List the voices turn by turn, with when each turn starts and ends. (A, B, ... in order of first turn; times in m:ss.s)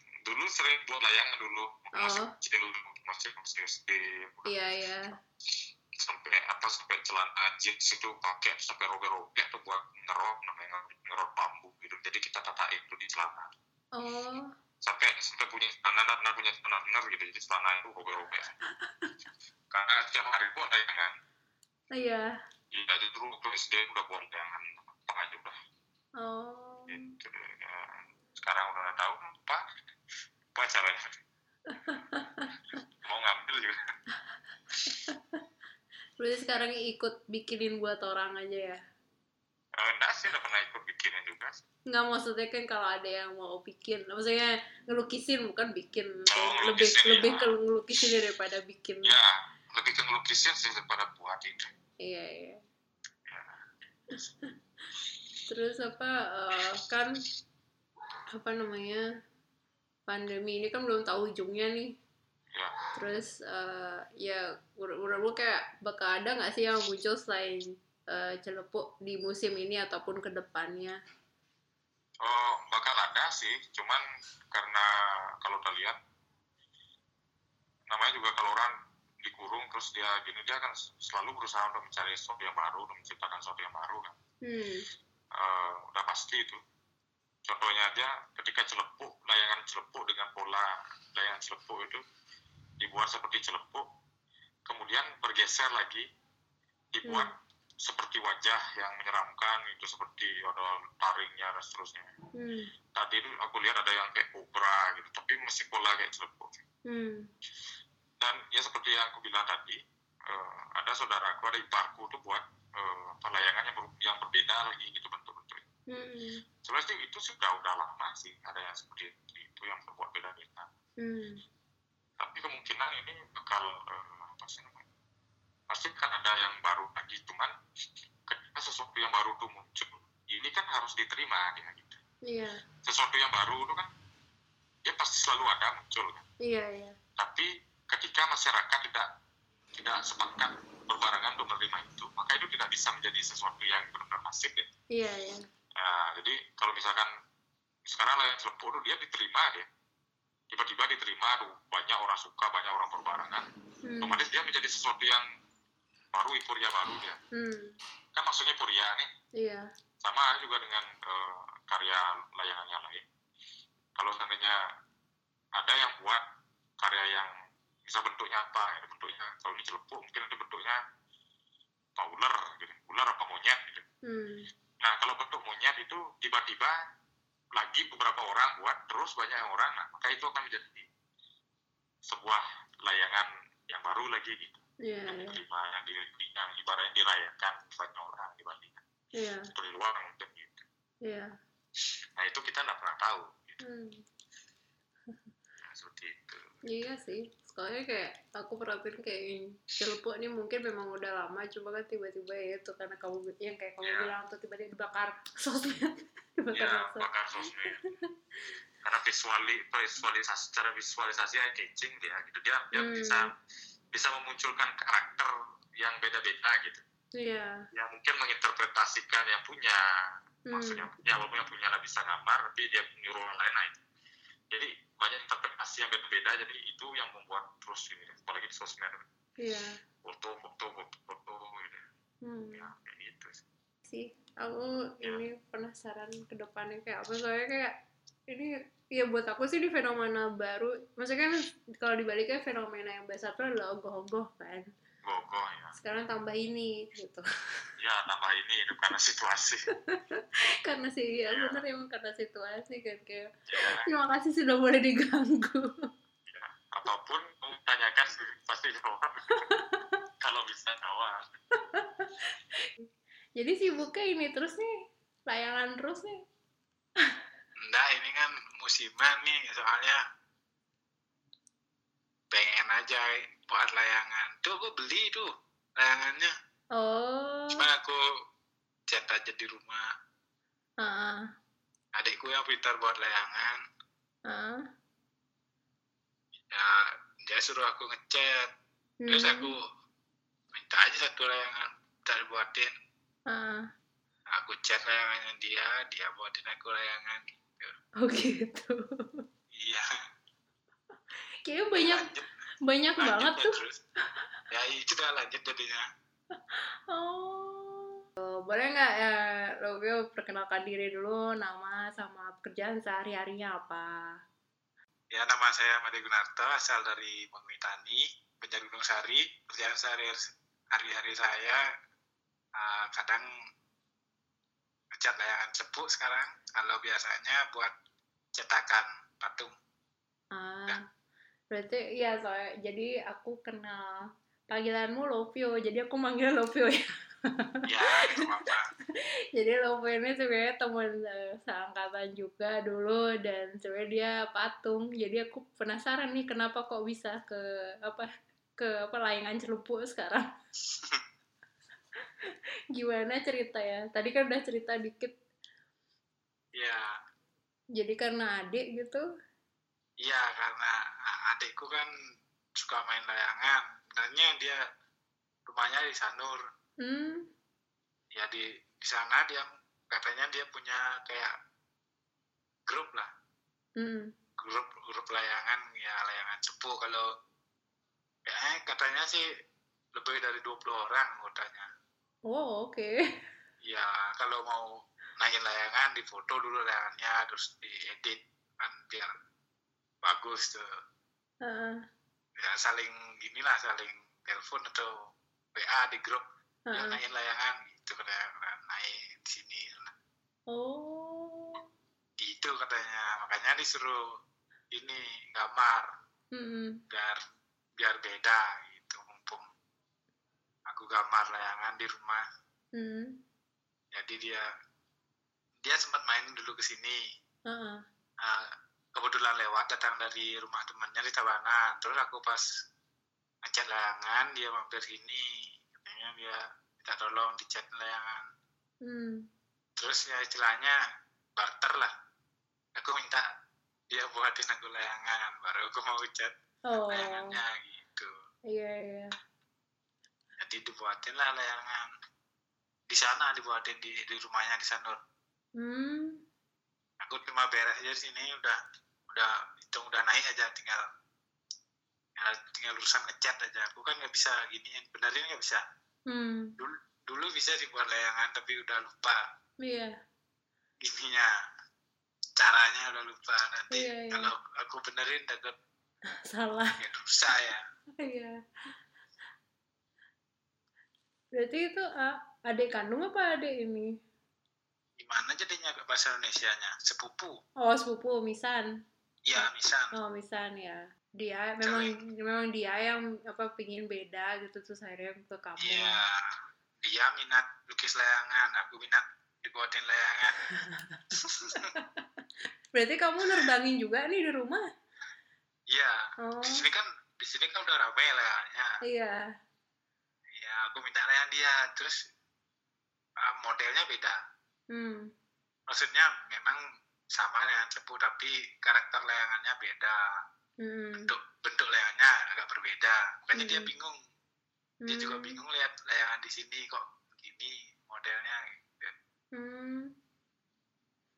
0:00.2-0:04.5 A
0:01.9-0:02.3 B
0:04.5-0:05.2 B
0:05.9-0:13.5 A
0:13.9-0:14.5 B
0:14.8-0:18.5 A
0:18.9-0:19.1 B
0:19.7-0:21.1 A
0:21.9-0:22.3 B
0:22.7-0:25.6 A
0:26.2-0:27.1 B
0:26.9-0:29.6 A
0:30.5-0:31.1 A
0:31.8-0:32.5 B
0:32.7-0:33.8 A
0:34.9-0:35.4 B
0:36.2-0:38.8 B
0:39.8-0:41.6 A
0:41.9-0:49.1 B
0:46.3-0:47.6 A
0:49.0-0:51.7 A
0:52.0-0:52.6 B
0:53.3-0:53.6 A
0:55.5-0:57.2 B
0:58.3-0:59.0 B
1:00.1-1:02.0 B
1:03.0-1:11.0 B
1:12.2-1:16.0 A
1:17.9-1:18.7 A
1:19.2-1:24.1 A
1:24.4-1:24.8 B
1:25.3-1:26.6 A
1:27.4-1:32.0 A
1:32.8-1:33.9 A
1:34.7-1:36.0 A
1:36.9-1:37.3 A
1:37.0-1:37.3 B
1:37.8-1:42.1 A
1:42.4-1:42.7 B
1:42.9-1:46.6 A
1:46.9-1:47.3 B
1:48.2-1:55.6 A
1:55.9-1:56.4 B
1:56.6-2:00.7 A
2:01.0-2:01.4 B
2:02.2-2:04.8 A
2:05.7-2:07.5 A
2:08.3-2:12.0 A
2:12.2-2:12.6 B
2:12.8-2:13.9 A
2:14.8-2:16.2 A
2:16.4-2:17.0 B
2:17.2-2:19.1 A
2:19.8-2:24.7 A
2:24.9-2:25.4 B
2:25.8-2:27.1 A
2:27.8-2:29.7 A
2:30.5-2:33.4 A
2:33.8-2:34.2 B
2:34.0-2:35.2 A
2:36.1-2:37.2 A
2:37.3-2:37.8 B
2:38.1-2:39.1 A
2:39.4-2:39.7 B
2:40.0-2:43.0 A
2:44.0-2:44.6 A
2:45.6-2:46.2 A
2:46.8-2:47.3 A
2:47.8-2:50.8 A
2:52.0-2:53.8 A
2:54.0-2:54.4 B
2:54.8-2:56.8 A
2:57.6-3:00.9 A
3:02.0-3:08.8 A
3:04.8-3:05.4 B
3:09.1-3:09.5 B
3:09.5-3:10.6 A
3:11.0-3:11.3 B
3:12.2-3:13.6 A
3:13.6-3:14.0 B
3:15.6-3:16.7 A
3:16.6-3:28.0 B
3:23.8-3:24.1 A
3:26.5-3:27.9 A
3:28.8-3:33.3 A
3:32.7-3:33.3 B
3:33.9-3:36.8 A
3:37.2-3:37.6 B
3:37.7-3:43.8 A
3:40.5-3:40.9 B
3:44.5-3:49.0 A
3:49.4-3:49.8 B
3:50.0-3:51.8 A
3:52.2-3:52.7 B
3:52.5-3:53.4 A
3:53.9-3:57.7 B
3:58.3-4:04.7 B
4:05.0-4:05.7 A
4:05.8-4:07.7 B
4:07.8-4:09.7 A
4:09.8-4:15.9 B
4:11.3-4:11.6 A
4:13.5-4:13.9 A
4:16.3-4:19.5 A
4:19.3-4:20.0 B
4:20.2-4:21.2 A
4:21.7-4:22.8 B
4:23.4-4:24.7 B
4:25.3-4:26.2 B
4:27.6-4:30.0 C
4:32.3-4:36.3 C
4:36.8-4:37.6 B
4:37.5-4:38.0 C
4:38.9-4:39.8 C
4:40.8-4:41.2 B
4:41.9-4:43.6 C
4:44.3-4:44.6 B
4:46.5-4:48.5 C
4:49.0-4:49.5 B
4:49.1-4:49.6 C
4:50.5-4:52.7 C
4:53.3-4:53.6 B
4:54.3-4:57.7 C
4:58.0-4:59.2 B
4:59.5-4:59.9 C
5:01.4-5:02.1 B
5:01.7-5:02.3 C
5:02.6-5:03.6 B
5:03.0-5:03.8 C
5:04.5-5:05.8 C
5:06.3-5:13.9 B
5:15.1-5:21.6 C
5:22.5-5:23.2 C
5:24.9-5:27.7 C
5:28.3-5:29.5 C
5:30.3-5:30.8 B
5:31.5-5:38.2 B
5:37.6-5:38.7 C
5:39.3-5:50.3 B
5:50.7-5:51.0 C
5:52.3-5:55.2 B
5:56.5-5:56.9 C
5:57.8-5:59.0 B
6:00.0-6:01.9 C
6:02.6-6:04.6 C
6:05.5-6:06.4 C
6:06.8-6:07.3 B
6:08.1-6:11.3 C
6:12.7-6:13.1 C
6:13.8-6:14.1 B
6:14.4-6:17.1 C
6:18.2-6:19.3 C
6:19.9-6:21.7 C
6:22.3-6:22.9 B
6:23.6-6:29.1 C
6:30.0-6:30.6 C
6:31.4-6:31.8 B
6:32.4-6:34.9 C
6:35.5-6:39.9 C
6:36.7-6:37.0 B
6:40.5-6:41.6 B
6:42.2-6:44.0 C
6:44.7-6:45.9 C
6:46.3-6:46.8 B
6:46.9-6:47.2 C
6:47.8-6:49.4 C
6:50.7-6:52.2 C
6:52.8-6:53.2 B
6:53.9-6:54.4 C
6:55.6-6:57.0 C
6:57.5-6:57.8 B
6:58.2-7:02.4 C
7:03.4-7:08.2 C
7:08.8-7:09.2 B
7:09.8-7:10.8 C
7:11.4-7:11.9 C
7:12.8-7:13.2 C
7:13.9-7:16.3 C
7:16.7-7:17.4 B
7:16.9-7:18.1 C
7:18.5-7:19.1 B
7:20.4-7:21.8 C
7:22.9-7:25.0 C
7:25.6-7:26.2 B
7:27.0-7:28.6 C
7:29.1-7:30.8 C
7:32.2-7:35.6 C
7:36.1-7:36.5 B
7:36.6-7:39.2 C
7:39.6-7:39.9 B
7:40.8-7:41.3 C
7:42.4-7:45.5 C
7:43.7-7:44.3 B
7:46.3-7:46.7 B
7:46.8-7:47.6 C
7:48.0-7:48.3 B
7:51.4-7:53.9 B
7:55.0-7:57.3 C
7:57.6-7:58.6 B
7:59.2-8:00.0 C
7:59.4-8:06.0 B
8:01.6-8:02.0 C
8:05.6-8:10.4 C
8:10.5-8:11.2 B
8:11.1-8:11.7 C
8:11.7-8:14.6 B
8:15.7-8:18.8 C
8:16.2-8:16.6 B
8:18.8-8:19.2 B
8:20.3-8:22.0 C
8:23.2-8:24.2 C
8:24.7-8:25.0 B
8:25.7-8:26.6 C
8:27.1-8:30.0 C
8:30.6-8:31.1 B
8:31.0-8:34.0 C
8:33.4-8:33.7 B
8:34.8-8:35.3 B
8:34.9-8:38.9 C
8:39.4-8:39.9 B